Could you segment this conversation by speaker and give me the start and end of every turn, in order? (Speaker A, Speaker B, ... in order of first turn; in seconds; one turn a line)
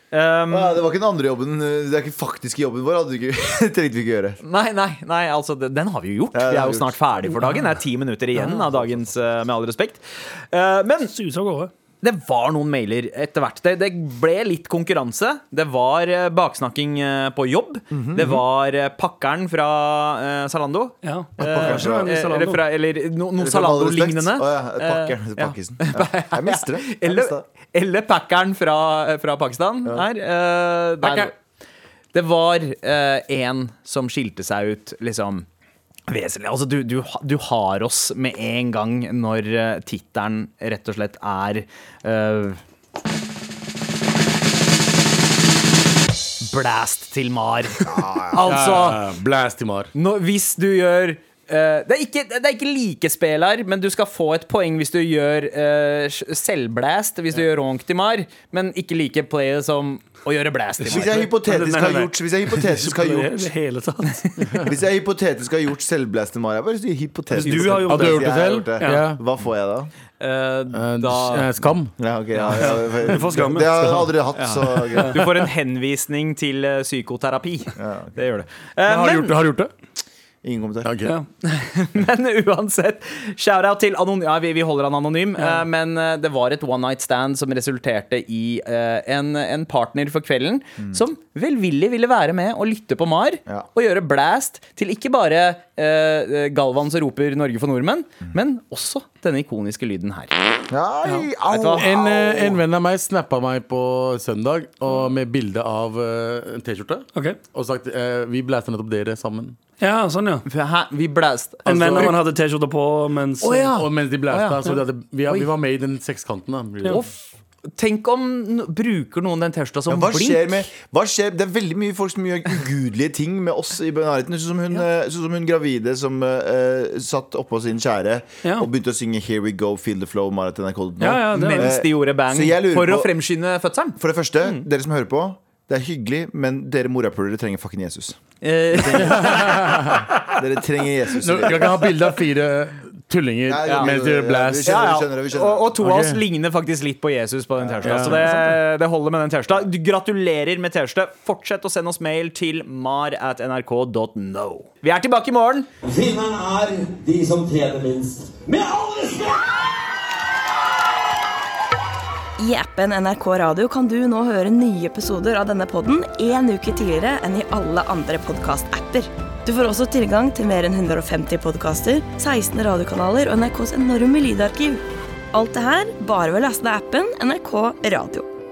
Speaker A: 0.1-0.8
Speaker B: 0.5-4.4
Speaker A: 4.4-11.1
Speaker B: 6.3-7.4
Speaker B: 8.4-9.1
Speaker C: 11.1-11.7
Speaker A: 12.0-31.3
Speaker B: 17.9-18.4
Speaker C: 21.0-22.6
Speaker B: 21.4-22.1
Speaker B: 23.4-27.4
Speaker D: 31.0-31.3
Speaker A: 32.1-35.5
Speaker A: 36.1-42.6
Speaker A: 46.4-49.0
Speaker B: 47.8-48.8
Speaker D: 48.4-49.9
Speaker A: 49.9-61.3
Speaker C: 60.8-64.6
Speaker B: 60.9-63.5
Speaker B: 64.6-69.9
Speaker C: 67.3-69.0
Speaker A: 67.4-67.8
Speaker D: 67.8-69.2
Speaker A: 70.2-71.5
Speaker D: 70.7-71.9
Speaker B: 72.0-75.3
Speaker A: 72.3-72.8
Speaker C: 72.6-74.1
Speaker A: 74.3-79.4
Speaker C: 74.9-75.2
Speaker B: 77.8-78.1
Speaker D: 78.8-79.7
Speaker B: 80.4-80.9
Speaker D: 80.8-81.2
Speaker A: 81.4-100.3
Speaker C: 85.4-85.6
Speaker B: 100.7-102.6
Speaker A: 101.5-101.9
Speaker D: 101.7-109.5
Speaker C: 109.8-110.4
Speaker A: 110.5-112.2
Speaker C: 111.7-113.8
Speaker A: 113.4-114.7
Speaker D: 113.7-117.0
Speaker A: 116.9-117.1
Speaker A: 117.7-120.7
Speaker B: 119.9-133.1
Speaker C: 128.4-128.7
Speaker C: 131.0-131.7
Speaker A: 131.3-134.0
Speaker B: 134.0-138.2
Speaker A: 138.4-140.0
Speaker B: 138.8-141.9
Speaker D: 138.9-140.2
Speaker D: 141.2-144.8
Speaker B: 143.5-145.7
Speaker A: 143.6-143.9
Speaker A: 144.6-155.7
Speaker D: 145.8-146.2
Speaker B: 147.6-148.2
Speaker D: 147.8-148.3
Speaker C: 148.1-148.6
Speaker E: 155.8-159.5
Speaker F: 162.4-174.8
Speaker F: 175.3-178.3